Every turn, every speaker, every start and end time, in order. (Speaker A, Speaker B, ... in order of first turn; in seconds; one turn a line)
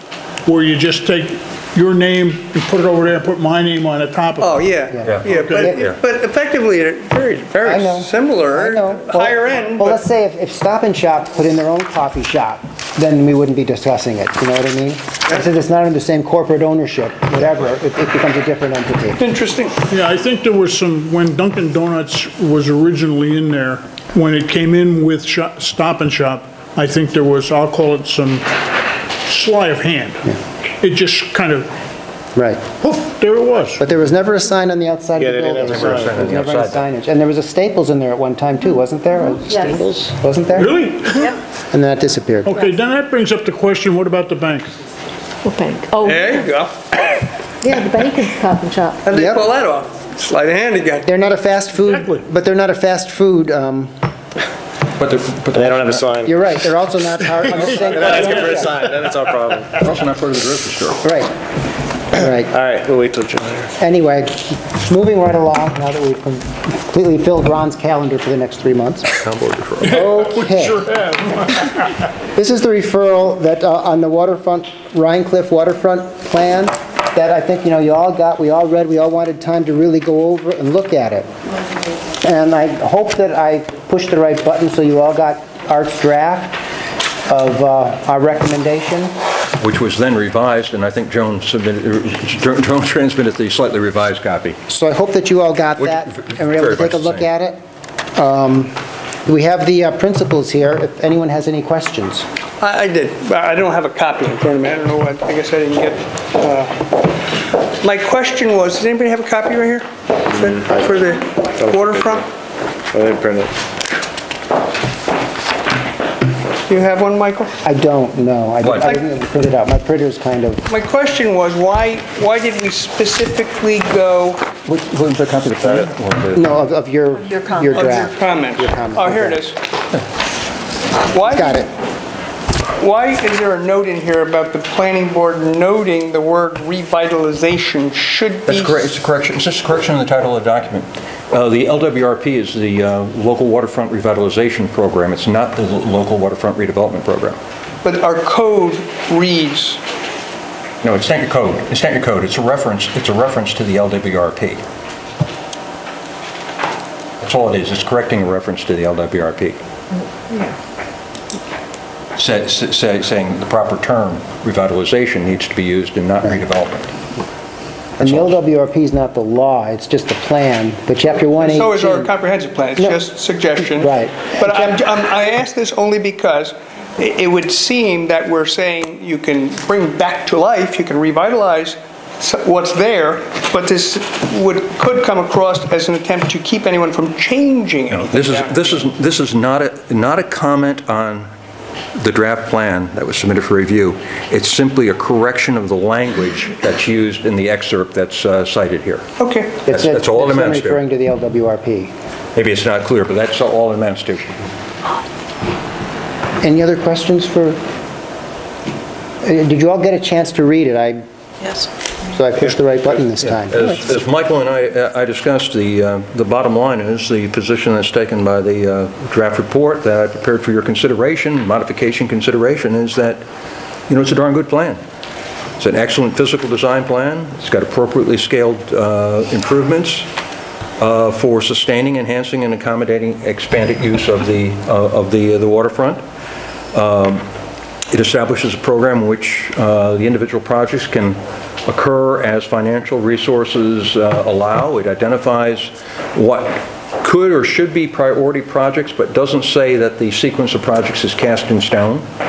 Speaker A: 0.5-4.7
Speaker B: 4.4-10.0
Speaker C: 4.9-5.8
Speaker D: 5.0-6.0
Speaker A: 5.3-5.8
Speaker C: 7.6-19.2
Speaker B: 19.2-19.8
Speaker A: 19.9-28.5
Speaker A: 29.3-31.7
Speaker C: 32.3-32.6
Speaker A: 32.8-33.8
Speaker C: 33.8-40.8
Speaker E: 35.2-36.3
Speaker D: 36.0-36.8
Speaker F: 39.4-39.8
Speaker A: 40.5-41.4
Speaker C: 41.7-42.6
Speaker A: 42.5-44.7
Speaker F: 45.4-46.2
Speaker B: 46.0-47.3
Speaker F: 47.6-49.0
Speaker B: 49.0-51.1
Speaker C: 49.1-49.4
Speaker C: 51.0-53.9
Speaker A: 51.8-52.2
Speaker D: 55.0-56.1
Speaker E: 55.5-56.5
Speaker C: 56.2-58.8
Speaker E: 57.6-59.8
Speaker D: 59.7-61.1
Speaker C: 61.0-61.3
Speaker C: 62.1-62.5
Speaker E: 62.2-63.7
Speaker C: 63.8-69.1
Speaker D: 69.1-69.9
Speaker A: 69.8-71.8
Speaker C: 69.8-70.8
Speaker C: 72.3-81.3
Speaker C: 82.2-86.6
Speaker C: 87.3-89.1
Speaker D: 89.6-94.6
Speaker C: 94.7-97.6
Speaker D: 95.8-97.3
Speaker C: 98.2-102.2
Speaker B: 102.6-107.1
Speaker B: 107.8-112.2
Speaker E: 111.7-112.2
Speaker E: 112.9-113.5
Speaker B: 116.7-117.5
Speaker C: 117.6-120.7
Speaker D: 118.6-118.9
Speaker B: 120.7-124.5
Speaker D: 124.6-126.5
Speaker C: 126.3-129.4
Speaker B: 127.7-129.6
Speaker B: 131.1-131.7
Speaker C: 131.3-131.7
Speaker B: 132.8-138.9
Speaker D: 138.5-147.4
Speaker B: 147.8-149.8
Speaker D: 150.8-154.6
Speaker D: 157.2-159.6
Speaker D: 162.2-166.9
Speaker C: 168.0-172.1
Speaker D: 168.0-168.4
Speaker B: 171.4-188.9
Speaker C: 173.6-174.8
Speaker D: 187.9-191.3
Speaker D: 191.9-199.1
Speaker B: 199.2-199.7
Speaker C: 199.7-201.9
Speaker D: 199.7-200.8
Speaker D: 202.3-204.4
Speaker C: 206.4-207.6
Speaker C: 209.2-211.0
Speaker C: 211.6-213.8
Speaker D: 213.3-223.2
Speaker D: 223.9-224.8
Speaker D: 225.6-230.1
Speaker D: 230.8-236.0
Speaker D: 236.7-237.2
Speaker D: 237.9-252.1